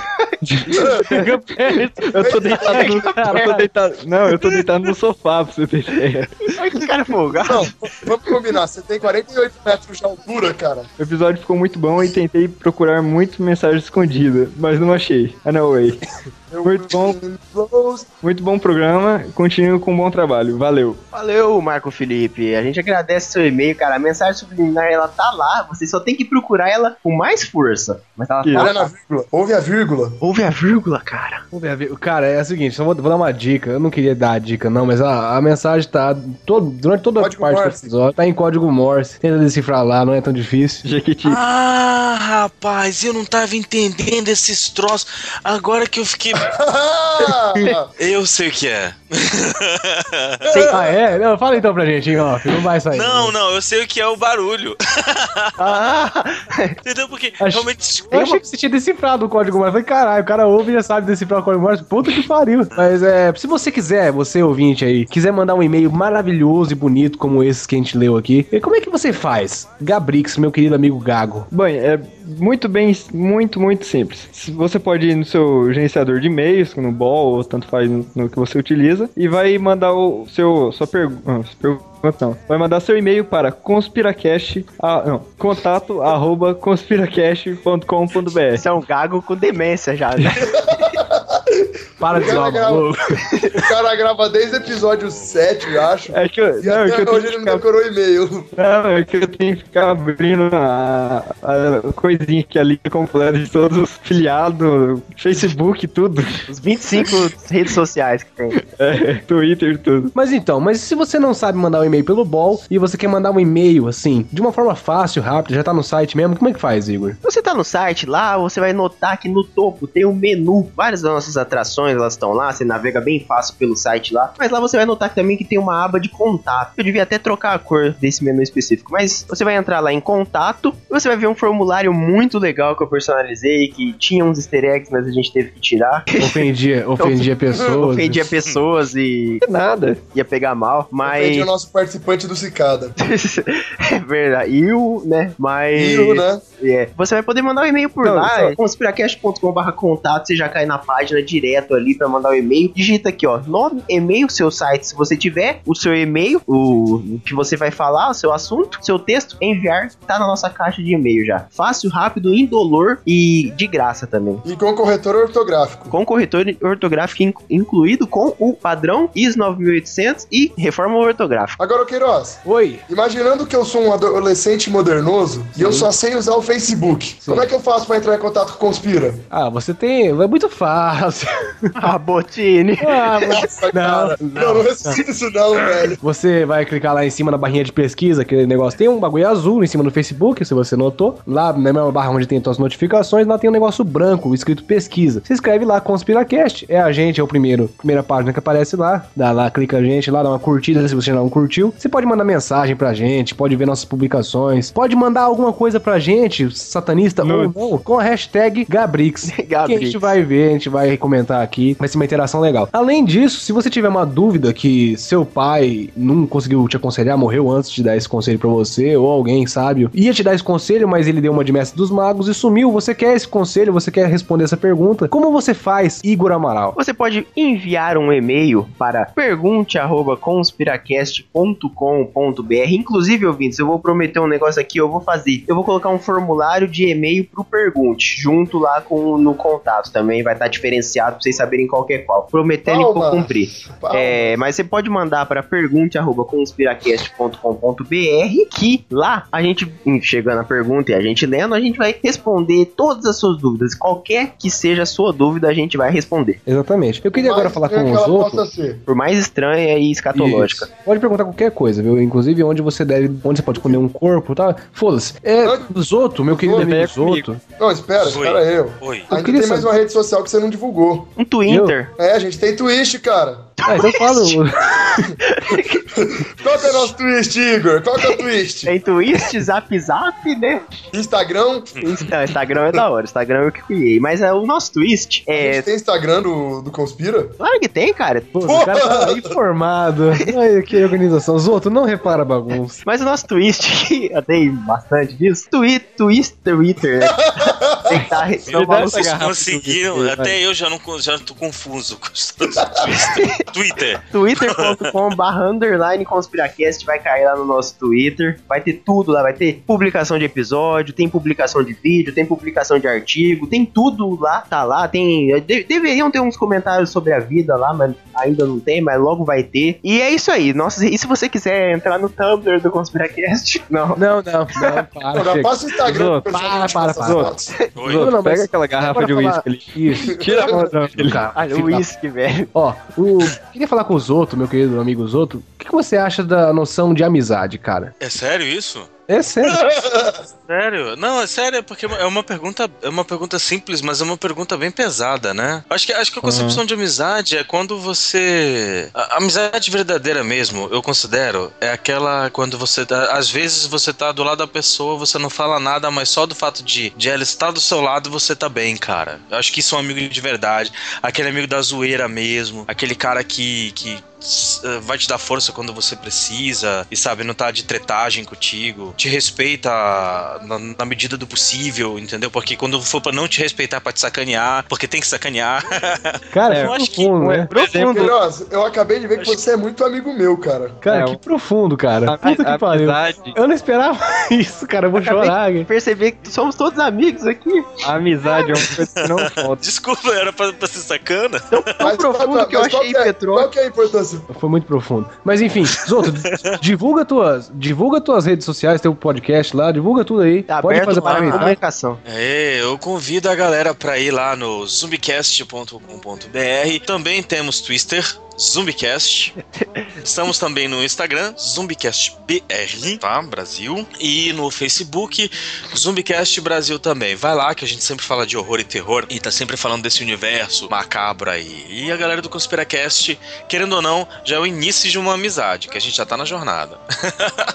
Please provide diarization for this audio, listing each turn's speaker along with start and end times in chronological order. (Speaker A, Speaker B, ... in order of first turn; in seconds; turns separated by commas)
Speaker A: 0.4-6.5, Speaker B: 0.7-1.0, Speaker C: 1.1-3.6, Speaker B: 2.2-3.5, Speaker D: 6.6-7.7, Speaker B: 7.4-10.9, Speaker A: 11.0-16.0, Speaker B: 16.5-18.1, Speaker A: 16.6-17.2, Speaker A: 18.2-21.0, Speaker D: 21.1-28.9, Speaker A: 28.4-28.7, Speaker B: 28.5-30.2, Speaker D: 30.2-31.4, Speaker C: 31.5-40.8, Speaker B: 37.2-37.9, Speaker A: 40.8-41.4, Speaker E: 41.2-46.4, Speaker B: 46.4-47.9, Speaker E: 48.0-50.0, Speaker B: 50.5-50.9, Speaker D: 50.5-50.8, Speaker C: 50.7-53.4, Speaker E: 52.9-55.5, Speaker D: 55.6-56.7, Speaker E: 56.8-58.2, Speaker C: 57.4-71.5, Speaker A: 71.5-88.6, Speaker D: 88.5-90.4, Speaker B: 90.4-92.9, Speaker C: 92.0-93.2, Speaker B: 93.6-98.5, Speaker E: 94.9-95.3, Speaker A: 96.1-97.6, Speaker A: 98.5-107.2, Speaker D: 106.5-108.6, Speaker A: 108.6-110.1, Speaker C: 110.1-117.2, Speaker D: 117.2-136.4, Speaker C: 136.2-138.3, Speaker D: 137.0-139.4, Speaker A: 139.4-140.0, Speaker D: 140.1-141.5, Speaker B: 141.0-142.9, Speaker D: 143.0-164.4, Speaker B: 145.7-146.4, Speaker A: 148.0-148.6, Speaker B: 164.4-165.9, Speaker D: 165.9-171.6, Speaker B: 171.6-179.2, Speaker C: 172.4-172.8, Speaker C: 175.6-175.9, Speaker C: 177.2-177.5, Speaker C: 179.3-181.7, Speaker D: 181.8-183.2, Speaker C: 182.8-185.0, Speaker B: 183.2-186.0, Speaker C: 186.0-226.8, Speaker A: 207.2-207.5, Speaker D: 209.3-210.1, Speaker D: 226.8-256.4, Speaker B: 242.7-244.4, Speaker C: 256.4-258.4, Speaker B: 257.1-258.8, Speaker D: 258.9-260.7, Speaker C: 260.1-267.4, Speaker B: 265.4-265.7, Speaker B: 266.4-266.7, Speaker A: 266.5-267.3, Speaker B: 267.6-271.1, Speaker E: 268.0-269.1, Speaker C: 269.1-269.7, Speaker D: 271.2-271.9, Speaker C: 271.5-271.7, Speaker B: 272.0-273.5, Speaker D: 273.6-274.4, Speaker C: 273.6-275.1, Speaker D: 275.2-275.9, Speaker B: 275.9-278.7, Speaker D: 278.0-280.6, Speaker B: 280.9-281.8, Speaker D: 281.8-285.6, Speaker B: 285.3-287.3, Speaker D: 287.4-288.3, Speaker C: 288.3-292.8, Speaker B: 288.4-289.3, Speaker D: 292.8-299.1, Speaker B: 297.1-298.0, Speaker A: 298.5-300.4, Speaker E: 298.7-302.5, Speaker B: 302.5-302.8, Speaker D: 302.9-303.4, Speaker E: 303.5-304.9, Speaker D: 304.1-324.0, Speaker C: 323.9-327.3, Speaker B: 325.1-327.6, Speaker A: 325.9-326.2, Speaker A: 327.0-331.2, Speaker E: 327.8-328.1, Speaker C: 327.9-331.9, Speaker B: 330.2-330.6, Speaker D: 331.3-332.5, Speaker C: 332.5-337.9, Speaker E: 338.0-338.9, Speaker C: 339.1-339.7, Speaker B: 339.5-340.2, Speaker E: 340.5-377.1, Speaker A: 346.2-346.6, Speaker C: 376.3-377.5, Speaker A: 376.5-378.1, Speaker B: 377.6-380.8, Speaker C: 380.8-385.7, Speaker A: 380.9-381.2, Speaker A: 382.1-383.4, Speaker D: 385.0-387.7, Speaker A: 387.8-389.6, Speaker E: 389.2-391.5, Speaker D: 391.5-393.5, Speaker B: 391.8-394.3, Speaker C: 394.3-401.6, Speaker D: 400.5-402.0, Speaker E: 402.1-409.3, Speaker E: 410.0-427.2